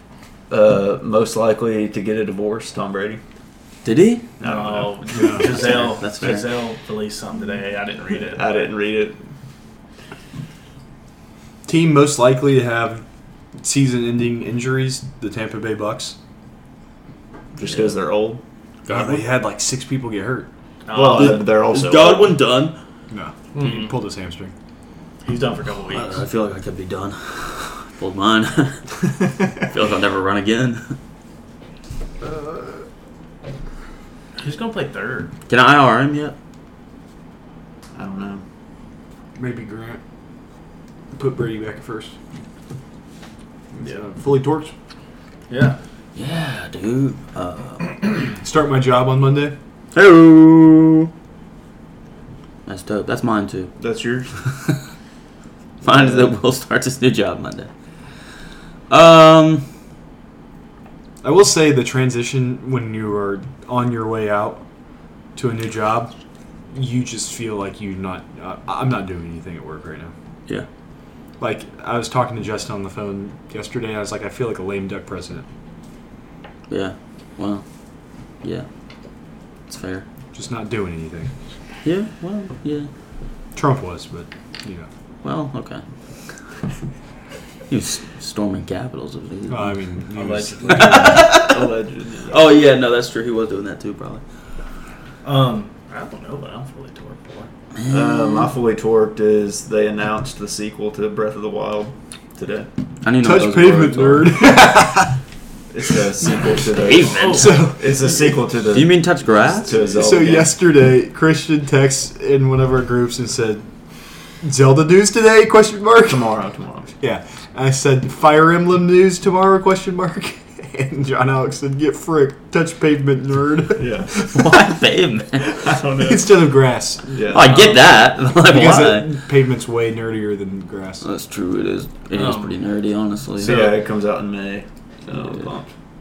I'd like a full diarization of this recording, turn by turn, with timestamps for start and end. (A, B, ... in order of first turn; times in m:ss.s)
0:00.5-0:03.2 A
0:03.8-0:04.3 B
0:04.4-0:05.0 A
0:04.4-0:08.7 C
0:05.1-0:05.6 D
0:05.4-0:06.6 B
0:08.3-0:09.2 A
0:11.7-0:13.0 D
0:13.6-0:16.2 D
0:17.6-0:18.4 A
0:18.9-0:20.5 D
0:18.9-0:19.2 B
0:20.9-0:21.5 C
0:20.9-0:22.4 A
0:21.1-0:22.8 B
0:23.1-0:24.5 D
0:23.5-0:23.9 C
0:25.2-0:26.3 C
0:25.9-0:31.0 B
0:32.2-0:32.8 D
0:34.4-0:35.3 C
0:35.5-0:36.4 B
0:38.0-0:38.4 A
0:39.4-0:40.0 D
0:41.1-0:42.1 D
0:43.7-0:44.7 D
0:45.5-0:45.8 C
0:46.2-0:48.1 B
0:48.4-0:49.6 D
0:49.9-0:51.1 B
0:52.7-0:53.7 B
0:53.8-0:54.4 A
0:55.8-0:57.7 B
0:55.8-0:56.3 A
0:58.9-0:59.7 B
1:01.2-1:04.6 D
1:05.4-1:06.1 D
1:06.7-1:10.1 D
1:11.4-1:15.5 D
1:16.7-1:17.6 B
1:19.7-1:20.1 B
1:20.3-1:21.4 D
1:21.8-1:22.9 B
1:23.6-1:24.9 D
1:25.2-1:25.8 B
1:27.7-1:29.7 B
1:29.5-1:31.4 D
1:30.2-1:31.1 C
1:30.7-1:31.7 B
1:31.1-1:32.4 A
1:32.3-1:34.2 B
1:35.2-1:37.5 C
1:37.8-1:38.5 B
1:37.9-1:42.7 A
1:43.0-1:44.5 B
1:43.2-1:45.2 D
1:45.7-1:49.0 A
1:46.7-1:47.7 B
1:47.0-1:47.6 C
1:47.3-1:48.4 D
1:48.7-1:49.8 B
1:49.6-1:50.5 A
1:49.7-1:53.6 D
1:54.4-1:56.3 D
1:56.0-1:56.9 A
1:57.0-2:04.7 D
2:03.8-2:04.1 A
2:04.2-2:05.6 B
2:05.5-2:06.4 C
2:05.7-2:07.0 D
2:07.0-2:07.7 A
2:07.3-2:09.1 B
2:07.4-2:07.8 C
2:08.4-2:11.0 D
2:11.0-2:13.7 B
2:12.1-2:12.6 C
2:13.4-2:15.7 A